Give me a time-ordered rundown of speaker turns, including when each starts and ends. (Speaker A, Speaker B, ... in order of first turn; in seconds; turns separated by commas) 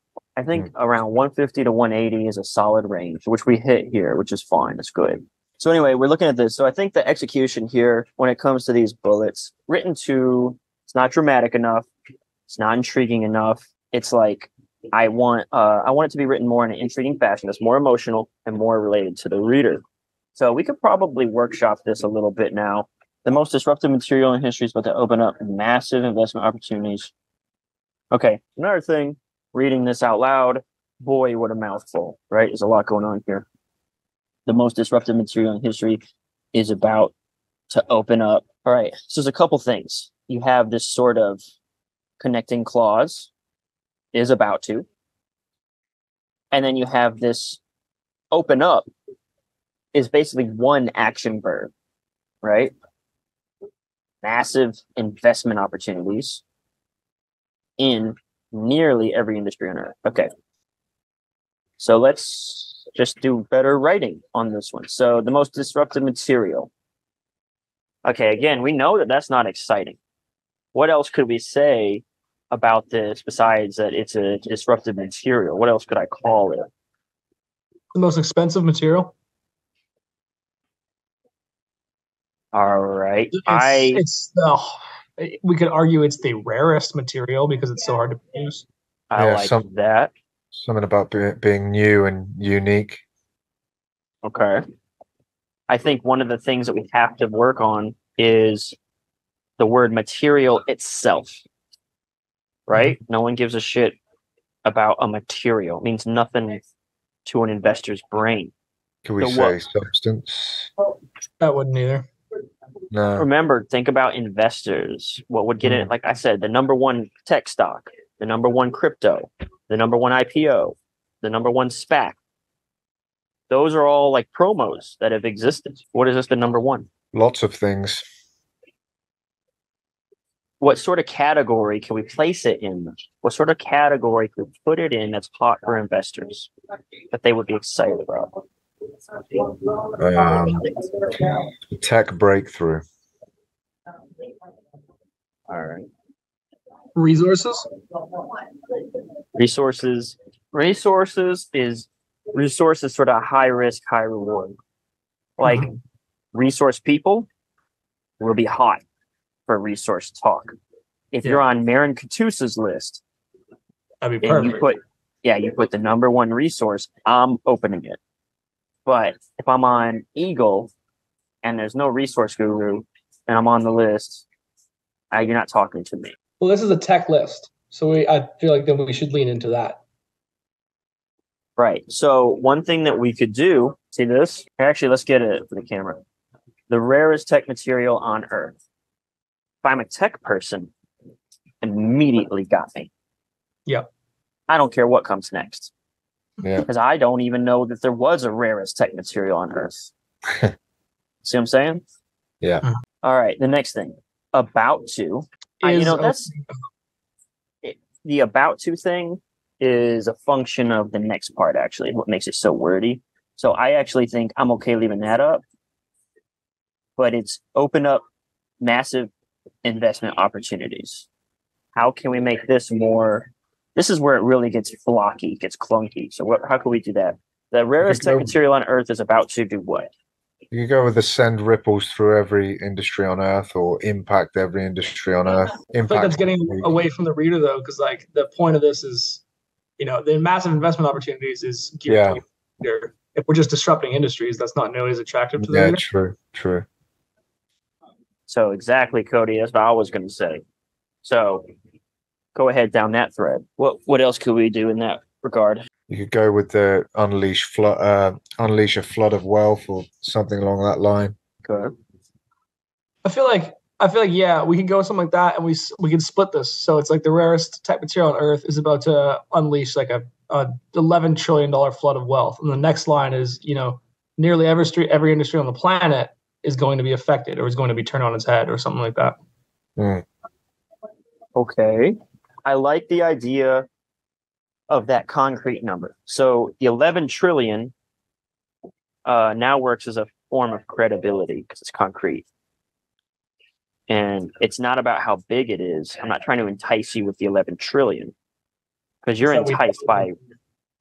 Speaker A: 0.4-11.9, Speaker A: 12.5-19.8, Speaker A: 20.3-27.1, Speaker A: 28.1-33.5, Speaker A: 34.5-36.0, Speaker A: 36.5-37.1, Speaker A: 37.7-41.4, Speaker A: 42.2-43.3, Speaker A: 44.1-44.9, Speaker A: 46.5-47.6, Speaker A: 48.3-48.9, Speaker A: 49.9-51.7, Speaker A: 52.4-52.7, Speaker A: 54.2-56.4, Speaker A: 57.8-60.3, Speaker A: 61.8-66.7, Speaker A: 68.0-70.0, Speaker A: 70.7-76.7, Speaker B: 77.9-79.1, Speaker A: 82.5-84.0, Speaker B: 83.3-88.6, Speaker A: 89.1-90.1, Speaker C: 89.2-89.6, Speaker C: 90.5-93.0, Speaker A: 94.2-94.6, Speaker A: 95.7-98.8, Speaker A: 99.6-101.4, Speaker A: 102.7-104.0, Speaker A: 104.6-106.6, Speaker A: 107.2-108.5, Speaker C: 109.0-110.7, Speaker A: 109.2-109.5, Speaker B: 111.4-112.0, Speaker C: 112.9-113.3, Speaker A: 113.2-122.2, Speaker C: 115.6-115.9, Speaker A: 123.5-126.9, Speaker C: 127.1-128.0, Speaker A: 130.6-136.5, Speaker A: 137.1-138.3, Speaker C: 140.0-140.6, Speaker C: 141.7-142.8, Speaker A: 145.5-145.9, Speaker B: 146.9-147.7, Speaker A: 149.3-154.5, Speaker A: 155.4-155.7, Speaker B: 155.4-155.8, Speaker A: 156.3-157.3, Speaker A: 158.2-158.8, Speaker A: 159.5-160.5, Speaker A: 161.1-163.0, Speaker B: 164.0-164.6, Speaker A: 164.2-168.0, Speaker A: 168.8-170.7, Speaker A: 171.4-174.2, Speaker A: 175.1-176.1, Speaker B: 176.4-179.8, Speaker A: 181.6-186.0, Speaker A: 186.7-188.6, Speaker A: 189.6-190.7, Speaker A: 191.6-192.9, Speaker A: 194.5-195.7, Speaker A: 196.7-199.9, Speaker A: 201.2-201.8, Speaker A: 203.0-206.3, Speaker B: 205.6-206.6, Speaker A: 207.6-215.4, Speaker A: 217.0-218.0, Speaker A: 218.6-219.1, Speaker A: 219.6-221.1, Speaker A: 221.7-229.9, Speaker C: 227.8-228.3, Speaker C: 230.5-236.7, Speaker B: 235.9-239.2, Speaker B: 239.8-245.8, Speaker C: 241.9-242.2, Speaker C: 245.4-246.7, Speaker A: 248.3-250.4, Speaker A: 251.0-251.4, Speaker A: 252.3-255.6, Speaker C: 255.9-261.1, Speaker A: 261.4-261.7, Speaker B: 263.0-279.2, Speaker C: 279.8-280.0, Speaker A: 281.4-283.7, Speaker A: 284.7-287.7, Speaker A: 289.1-292.2, Speaker A: 293.9-298.1, Speaker A: 299.0-300.1, Speaker B: 299.2-300.1